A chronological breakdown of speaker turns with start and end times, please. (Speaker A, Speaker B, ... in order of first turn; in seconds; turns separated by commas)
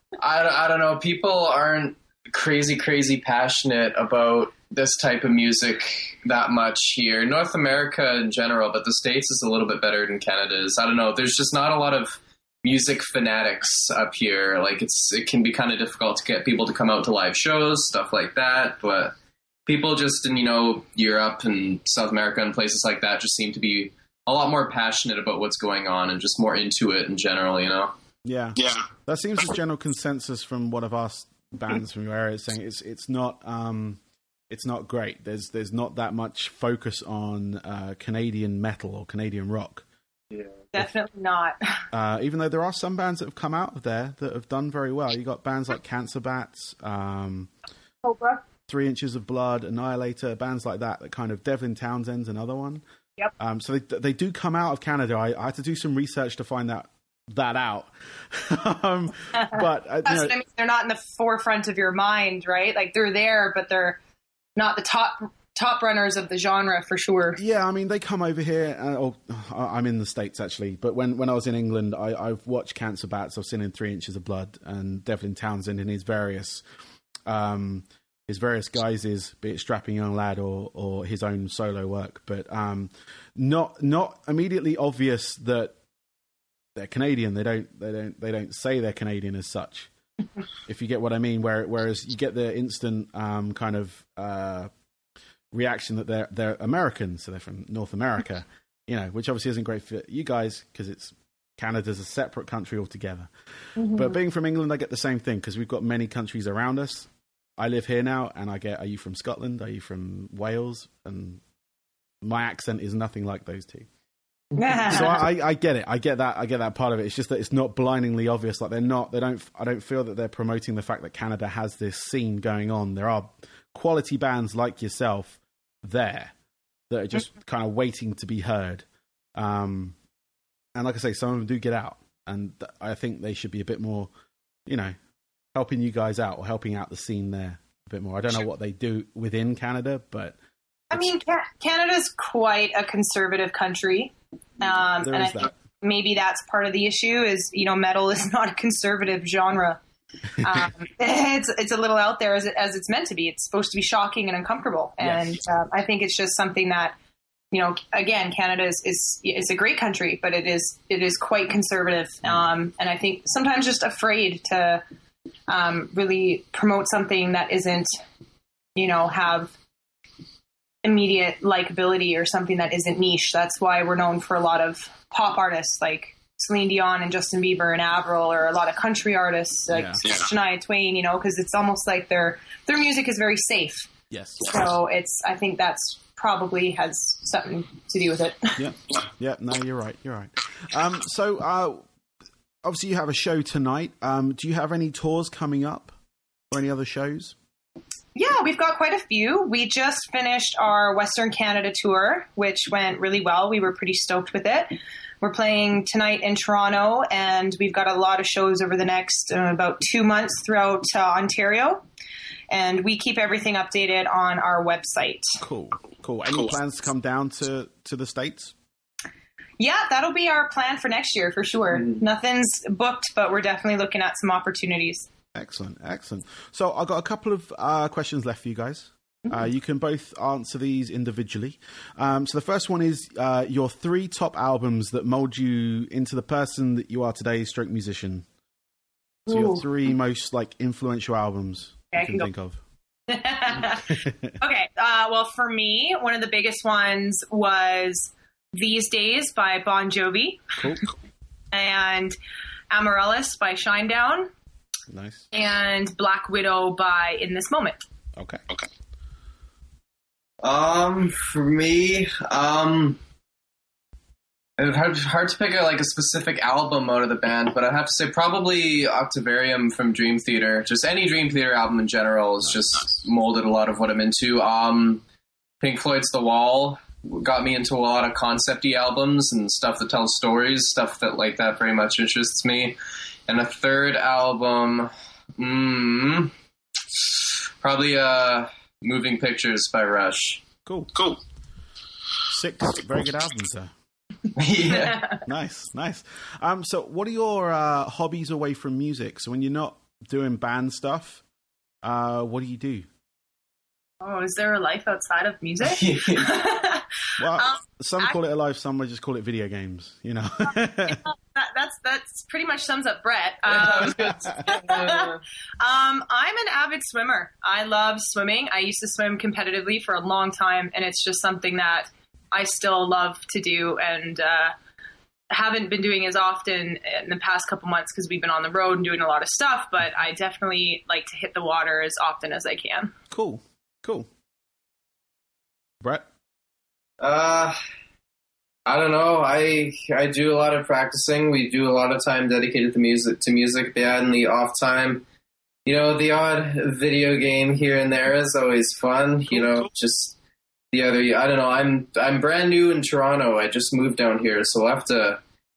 Speaker A: 0.2-19.1, Speaker A: 19.7-27.9, Speaker B: 28.2-34.0, Speaker B: 34.5-39.9, Speaker C: 40.7-41.6, Speaker B: 41.9-47.5, Speaker C: 48.0-48.4, Speaker B: 48.7-52.8, Speaker B: 53.4-60.4, Speaker C: 60.0-64.0, Speaker C: 64.6-67.4, Speaker B: 67.4-76.6, Speaker B: 77.3-85.8, Speaker B: 86.8-89.9, Speaker B: 90.7-94.7, Speaker B: 95.5-111.4, Speaker B: 112.2-113.9, Speaker C: 114.6-115.3, Speaker B: 114.9-126.3, Speaker B: 126.9-128.8, Speaker B: 129.4-129.9, Speaker B: 130.8-134.1, Speaker B: 134.7-134.9, Speaker B: 135.6-140.4, Speaker C: 140.9-149.8, Speaker B: 145.0-145.5, Speaker C: 150.4-156.9, Speaker B: 155.0-155.4, Speaker C: 157.5-164.8, Speaker C: 165.5-167.9, Speaker C: 168.8-169.5, Speaker C: 170.8-183.9, Speaker B: 179.7-180.1, Speaker B: 184.1-184.7, Speaker C: 184.4-188.6, Speaker B: 188.6-191.8, Speaker B: 192.6-195.9, Speaker B: 196.5-197.3, Speaker C: 198.2-211.8, Speaker C: 212.5-215.4, Speaker B: 215.4-218.6, Speaker C: 219.6-225.1, Speaker B: 225.3-238.2, Speaker B: 239.3-242.6, Speaker C: 239.3-239.6, Speaker C: 241.9-242.3, Speaker C: 243.1-250.6, Speaker B: 243.5-244.4, Speaker B: 250.6-250.9, Speaker C: 251.5-252.2, Speaker C: 252.7-254.3, Speaker B: 254.9-255.2, Speaker C: 255.3-257.8, Speaker B: 258.2-258.4, Speaker A: 260.4-263.0, Speaker A: 264.6-275.0, Speaker A: 275.6-282.8, Speaker A: 283.3-286.3, Speaker A: 286.9-290.4, Speaker B: 290.6-291.2, Speaker B: 292.3-293.7, Speaker A: 294.4-295.1, Speaker B: 295.2-301.2, Speaker B: 301.8-302.9, Speaker C: 304.0-308.1, Speaker A: 305.6-306.4, Speaker B: 307.2-311.0, Speaker C: 310.9-324.5, Speaker A: 313.5-315.2, Speaker C: 325.3-332.9, Speaker B: 333.1-334.1, Speaker A: 337.0-337.6, Speaker A: 338.7-345.0, Speaker A: 345.6-350.2, Speaker A: 350.7-355.2